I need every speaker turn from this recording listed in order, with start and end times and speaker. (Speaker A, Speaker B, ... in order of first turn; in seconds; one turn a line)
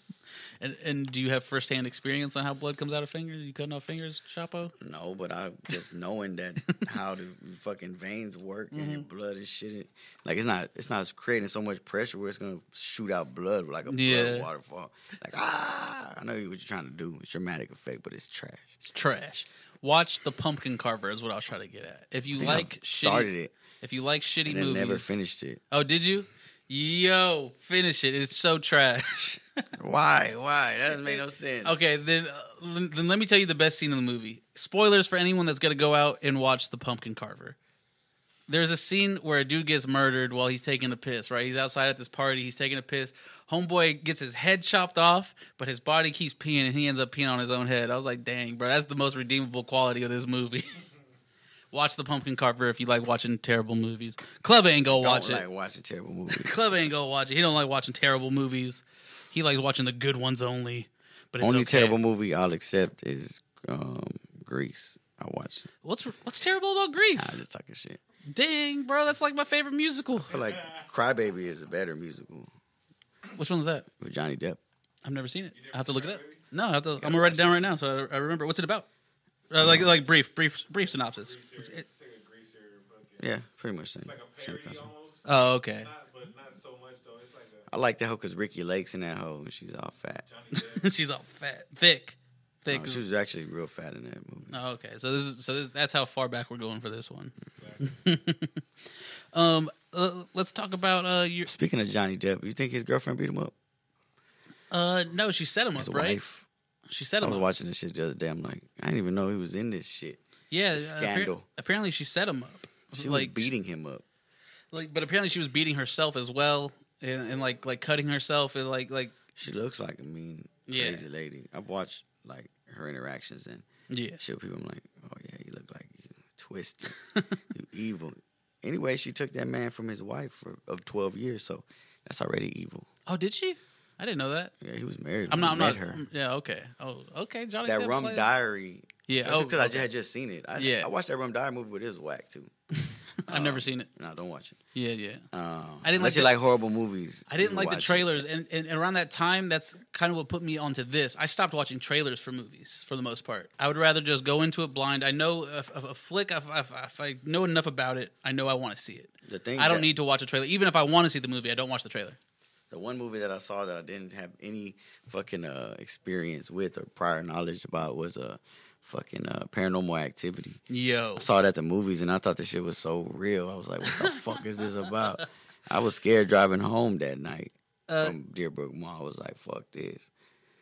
Speaker A: 0.6-4.7
Speaker B: 4.8-18.7
Speaker A: 8.7-9.1
Speaker A: 13.9-14.5
Speaker A: 18.9-23.3
Speaker B: 22.4-23.5
Speaker A: 23.8-25.2
Speaker B: 24.4-25.6
Speaker A: 25.7-29.4
Speaker B: 29.8-31.8
Speaker A: 31.6-37.6
Speaker A: 38.5-50.8
Speaker A: 51.7-55.4
Speaker B: 54.9-56.6
Speaker A: 56.3-62.0
Speaker B: 61.4-65.7
Speaker A: 65.8-67.4
Speaker B: 67.2-68.0
Speaker A: 68.3-70.3
Speaker B: 70.2-72.5
Speaker A: 73.3-73.9
Speaker B: 74.0-74.6
Speaker A: 75.0-78.9
Speaker C: 75.5-76.4
Speaker B: 77.0-77.7
Speaker A: 79.5-81.8
Speaker B: 79.6-79.9
Speaker C: 81.0-83.4
Speaker B: 83.2-84.9
Speaker C: 84.0-87.7
Speaker A: 85.2-85.9
Speaker B: 87.7-90.2
Speaker C: 90.3-91.0
Speaker A: 90.5-93.0
Speaker B: 92.7-94.5
Speaker A: 94.5-101.5
Speaker C: 97.5-97.9
Speaker B: 101.5-103.5
Speaker A: 104.7-106.2
Speaker B: 105.8-106.5
Speaker A: 106.9-107.5
Speaker B: 107.2-110.2
Speaker A: 110.5-113.5
Speaker B: 110.7-111.4
Speaker B: 112.9-114.0
Speaker A: 114.7-119.2
Speaker B: 119.4-123.7
Speaker A: 120.7-121.0
Speaker A: 123.9-124.2
Speaker B: 124.2-126.9
Speaker B: 127.5-132.9
Speaker A: 133.1-134.5
Speaker B: 134.6-136.0
Speaker A: 135.3-138.3
Speaker B: 137.7-142.5
Speaker A: 139.1-139.9
Speaker A: 140.6-140.9
Speaker A: 143.2-143.9
Speaker B: 143.3-144.6
Speaker A: 144.7-145.3
Speaker B: 145.3-148.2
Speaker A: 145.8-146.3
Speaker A: 147.3-162.2
Speaker B: 159.3-159.9
Speaker B: 162.7-170.6
Speaker A: 170.7-171.3
Speaker B: 171.2-180.1
Speaker A: 177.9-178.2